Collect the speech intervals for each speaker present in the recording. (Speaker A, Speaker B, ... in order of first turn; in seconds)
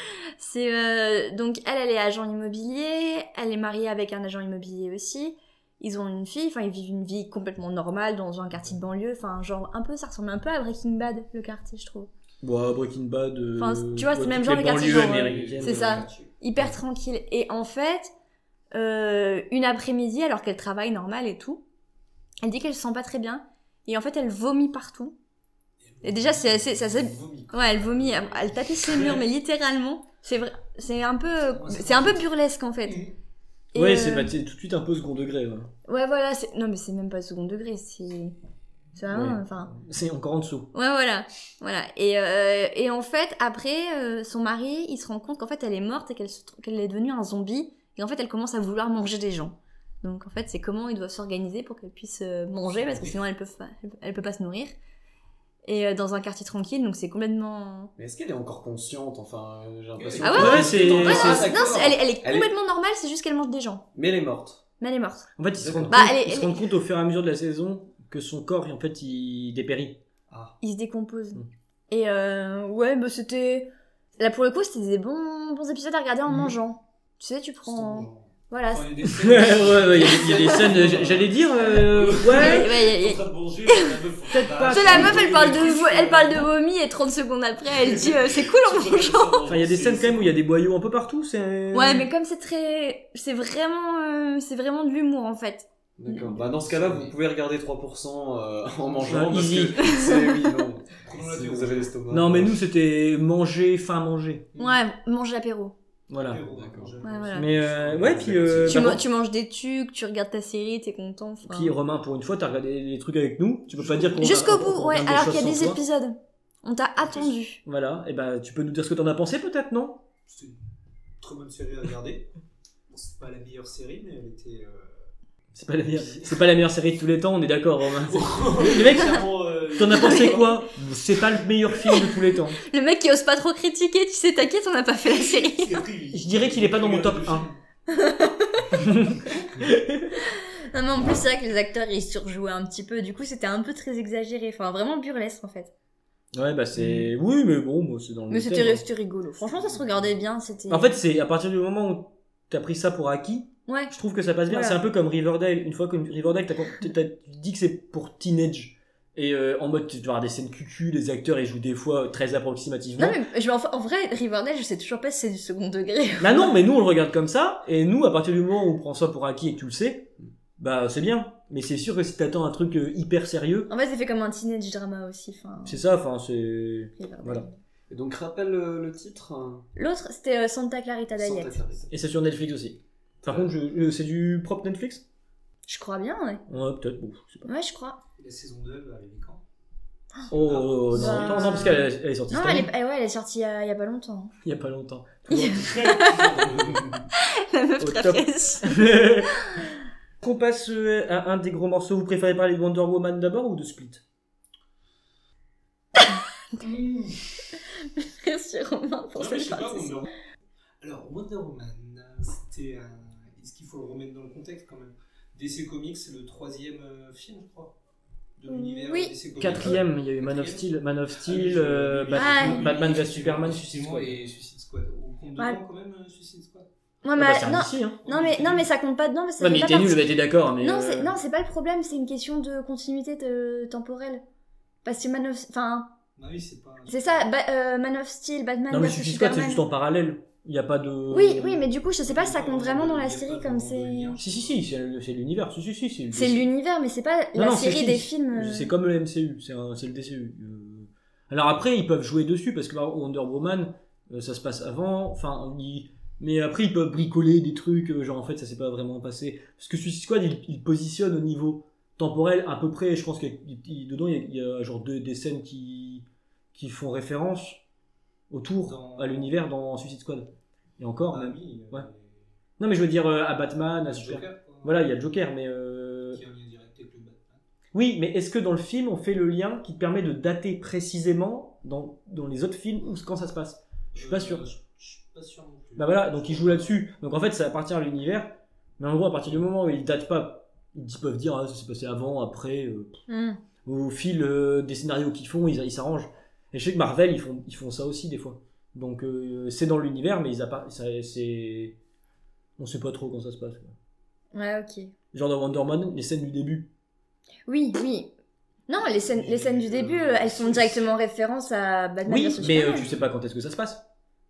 Speaker A: 0.4-12.1, 13.6-18.1, 18.7-21.6, 22.4-25.1, 26.0-33.0, 33.7-34.3, 35.9-38.3, 39.0-39.7, 40.7-54.7, 55.6-57.9, 60.2-63.9, 64.8-65.3, 65.9-66.7, 70.6-78.9, 80.0-80.6, 82.3-84.0, 84.7-89.4, 91.7-96.3, 99.7-100.4, 104.6-105.8, 107.0-107.5, 108.6-111.7, 114.2-117.6, 129.9-130.5, 132.6-135.8, 137.9-138.7, 140.2-145.7, 148.3-150.9, 153.7-153.9, 154.5-154.8, 163.0-166.5, 173.7-175.8, 177.0-177.5, 179.8-181.6, 185.7-186.4, 187.4-188.0, 190.9-194.3, 195.3-196.3, 197.2-199.0, 207.9-210.1, 218.5-219.1, 222.1-222.7, 227.0-234.2, 234.8-235.9, 236.9-239.6, 241.1-244.1, 246.1-248.7, 293.1-293.4, 304.3-304.9, 307.5-308.1, 308.7-312.9
Speaker B: 12.4-16.1, 33.7-35.7, 39.1-40.7, 60.3-61.5, 65.4-70.0, 79.1-82.7, 84.3-85.7, 89.5-92.1, 99.1-99.9, 102.1-104.5, 106.1-106.4, 107.3-109.0, 111.5-115.8, 117.6-120.0, 125.5-132.6, 136.1-137.5, 138.8-140.1, 146.3-148.8, 150.7-163.2, 166.2-173.7, 175.6-177.5, 181.9-185.0, 186.5-187.5, 190.3-192.7, 194.4-195.8, 196.5-197.0, 197.8-199.4, 200.2-204.0, 219.4-224.2, 227.2-228.0, 229.4-231.2, 238.7-241.7, 244.2-246.5, 247.3-267.6, 268.3-271.9, 272.6-276.2, 277.7-284.4, 285.8-292.9, 293.6-301.8, 302.6-303.7, 305.1-306.7, 312.0-313.8
Speaker C: 14.8-16.3, 25.8-29.2, 31.4-32.2, 32.9-33.1, 52.7-53.1, 60.0-61.4, 77.6-86.5, 87.7-90.3, 96.3-97.2, 98.8-99.4, 101.0-101.9, 104.5-104.8, 106.1-108.8, 113.7-114.7, 117.0-117.3, 120.3-120.6, 121.2-122.3, 122.9-125.0, 125.9-126.4, 127.9-130.6, 135.1-137.6, 149.4-150.2, 188.2-189.4, 190.2-191.8, 195.6-196.9, 206.6-207.4, 209.1-210.1, 210.8-217.7, 218.4-226.7, 228.0-228.7, 236.2-237.2, 242.0-244.6, 268.6-269.3, 271.1-272.3, 273.9-274.8, 276.1-277.4, 283.9-286.8, 308.8-310.8, 312.6-313.1
Speaker D: 58.0-62.5, 63.9-64.6, 65.6-66.0, 70.3-70.5, 96.0-102.5, 106.5-107.0, 107.8-109.0, 177.9-179.7, 181.2-181.9, 183.2-183.5